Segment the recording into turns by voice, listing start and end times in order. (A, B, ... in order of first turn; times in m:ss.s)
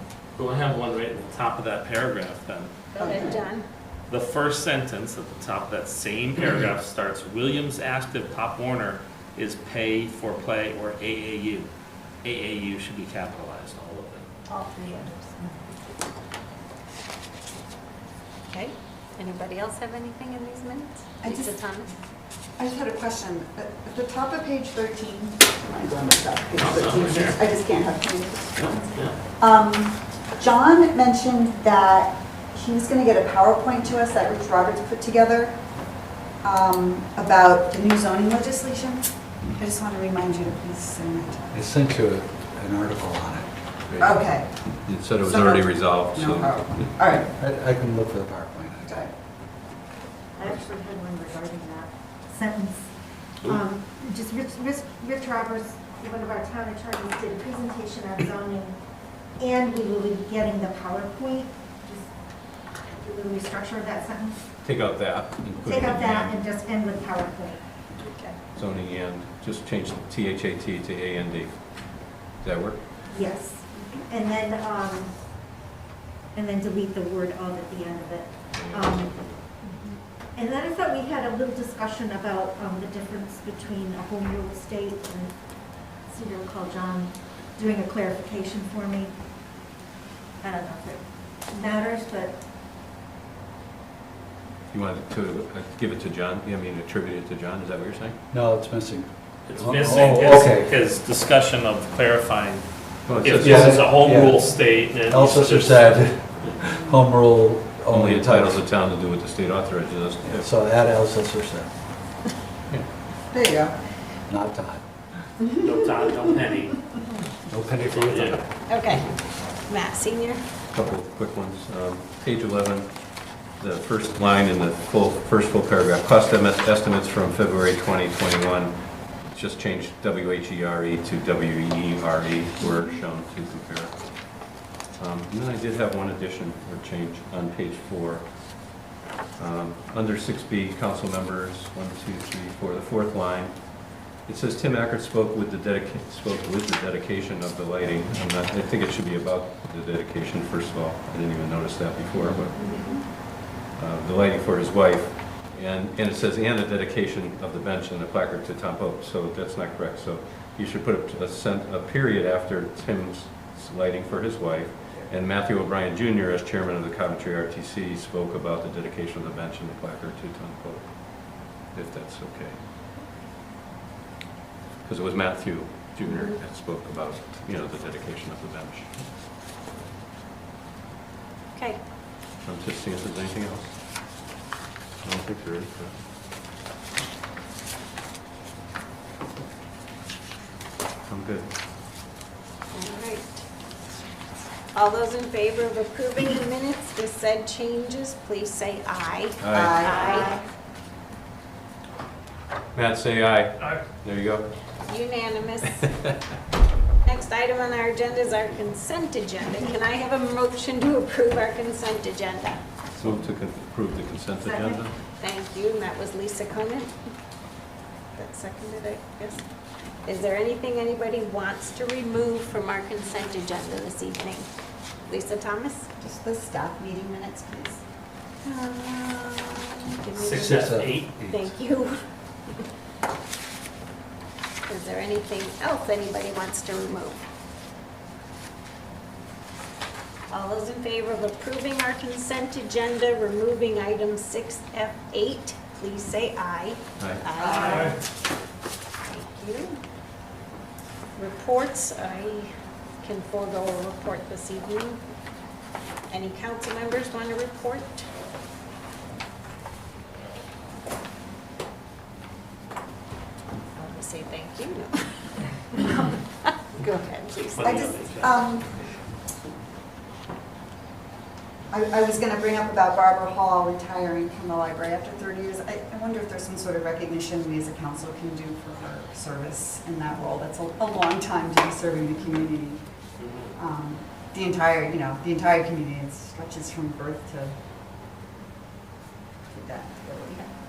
0:00.4-0:02.9 A
0:02.9-0:03.7 B
0:03.0-0:03.4 C
0:04.1-0:11.7 A
0:12.2-0:14.2 A
0:14.5-0:15.9 B
0:18.5-0:21.9 B
0:21.2-0:21.5 C
0:22.6-0:35.6 C
0:26.6-0:27.4 A
0:28.6-0:29.2 A
0:36.4-0:39.0 C
0:39.6-0:41.6 C
0:41.5-0:43.5 D
0:43.9-0:44.2 E
0:44.0-0:44.5 C
0:44.9-0:46.9 E
0:45.2-0:47.3 C
0:47.2-0:48.9 D
0:48.8-0:49.1 C
0:50.4-0:52.9 F
0:53.6-0:58.8 F
0:59.4-1:02.1 F
1:03.0-1:04.4 F
1:04.6-1:06.4 E
1:05.7-1:07.6 F
1:08.0-1:08.4 B
1:08.5-1:11.6 E
1:12.4-1:12.8 E
1:13.1-1:15.1 F
1:16.4-1:19.1 F
1:18.6-1:19.4 E
1:20.4-1:25.3 F
1:26.1-1:29.1 F
1:30.4-1:32.4 F
1:34.7-1:38.2 E
1:38.3-1:40.7 D
1:39.5-1:46.5 A
1:43.1-1:43.9 E
1:43.4-1:48.6 D
1:47.9-1:50.5 E
1:50.2-1:51.7 D
1:53.3-1:53.8 C
1:54.3-1:54.8 D
1:55.4-1:56.3 C
1:55.6-1:56.8 A
1:57.5-1:58.4 D
1:57.8-1:58.4 A
1:58.7-1:59.1 B
1:59.6-2:00.4 B
2:00.7-2:02.9 E
2:03.6-2:08.8 E
2:09.3-2:14.0 E
2:15.0-2:18.3 E
2:19.4-2:23.6 E
2:24.2-2:32.7 E
2:32.7-2:33.0 C
2:33.8-2:52.6 E
2:54.8-2:59.0 E
2:56.0-2:56.4 B
3:02.4-3:03.7 E
3:05.0-3:06.0 E
3:11.1-3:11.5 E
3:12.7-3:13.4 B
3:14.7-3:20.3 B
3:19.4-3:20.2 E
3:19.5-3:20.2 C
3:22.8-3:24.5 E
3:24.8-3:25.9 B
3:25.8-3:26.1 E
3:27.0-3:32.6 B
3:33.0-3:34.9 E
3:35.2-3:36.9 B
3:38.2-3:39.4 B
3:40.1-3:44.5 B
3:45.1-3:45.9 B
3:46.0-3:47.8 C
3:48.4-3:52.0 B
3:50.1-3:51.2 A
3:50.3-3:51.5 D
3:54.7-3:57.2 B
4:00.3-4:08.0 B
4:07.4-4:07.9 C
4:07.6-4:08.0 A
4:09.1-4:09.8 B
4:11.2-4:12.5 B
4:13.0-4:15.0 B
4:16.1-4:18.1 B
4:23.8-4:25.0 B
4:25.7-4:28.2 B
4:27.5-4:28.4 A
4:27.6-4:28.7 C
4:31.7-4:42.8 C
4:43.2-4:43.5 A
4:43.6-4:47.5 C
4:49.5-4:50.5 C